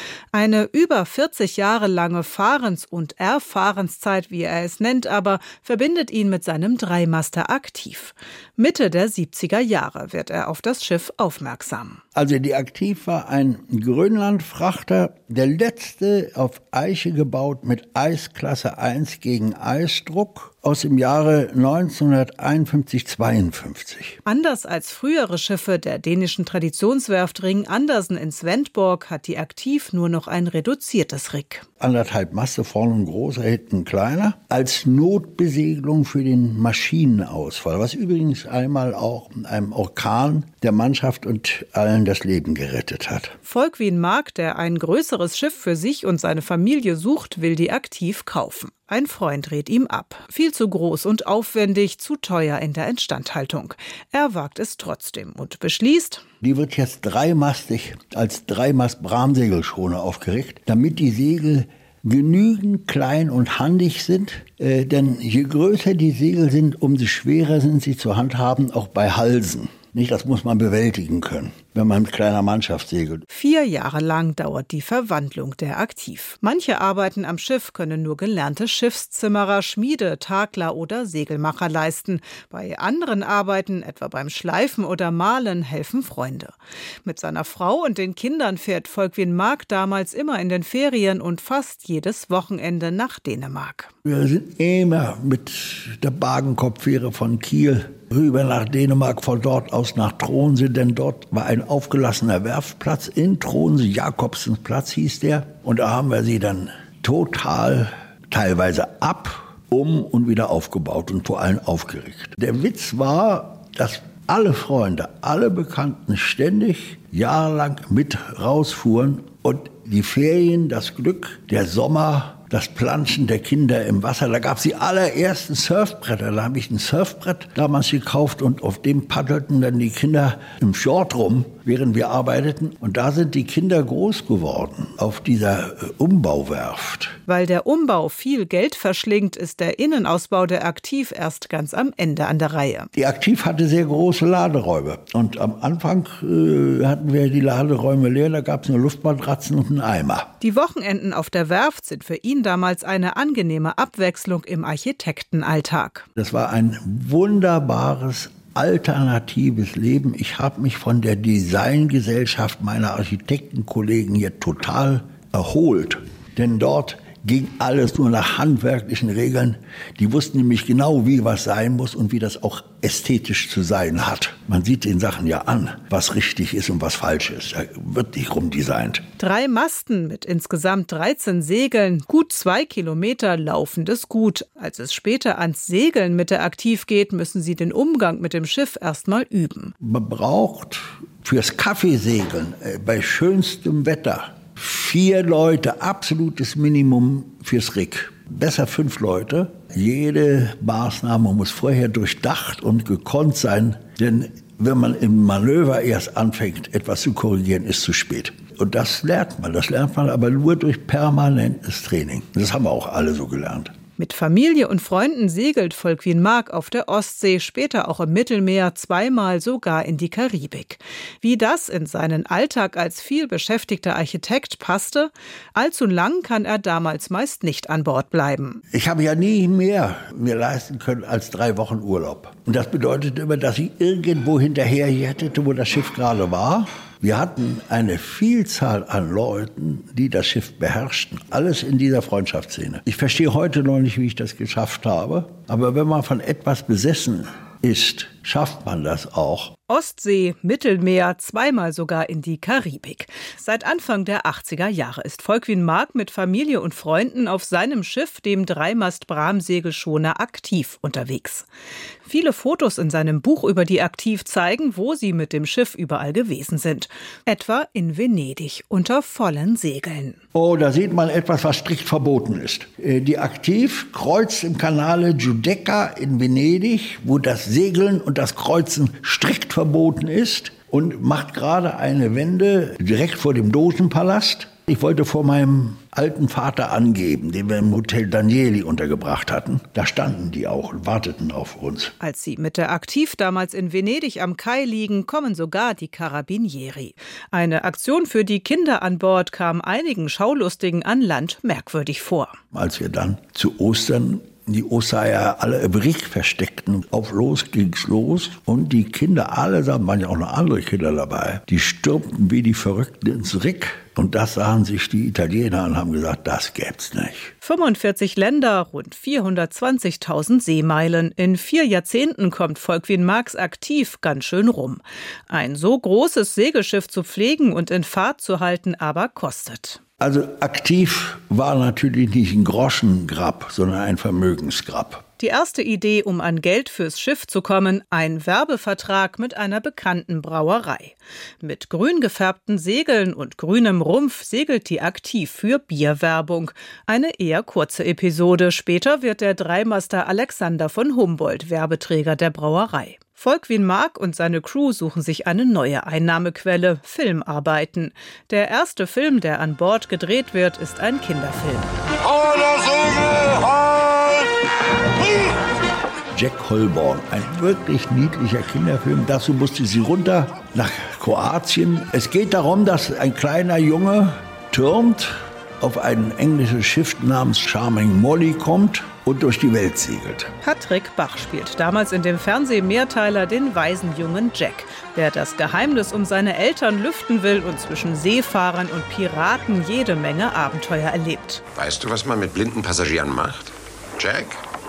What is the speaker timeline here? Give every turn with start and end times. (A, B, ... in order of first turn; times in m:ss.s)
0:00.3-0:12.0 A
0:12.2-0:24.2 B
0:24.3-0:31.7 A
0:31.8-0:43.4 B
0:43.5-0:56.2 A
0:56.4-1:13.2 B
1:13.3-1:26.5 A
1:27.0-1:33.9 A
1:34.0-2:17.2 B
2:17.3-2:22.9 A
2:22.9-2:30.3 B
2:30.4-2:36.1 A
2:36.2-2:59.1 B
2:59.2-3:09.7 A
3:09.8-3:33.7 B
3:34.0-3:48.6 A
3:48.7-4:09.5 B
4:09.7-4:21.5 A
4:22.1-4:30.2 A
4:30.3-4:51.9 B
4:52.0-5:02.4 A
5:02.5-5:17.3 B
5:17.4-5:29.8 A
5:30.0-5:35.0 B
5:35.2-6:01.7 A
6:06.1-6:20.3 B
6:20.4-6:31.4 A
6:31.6-6:34.4 C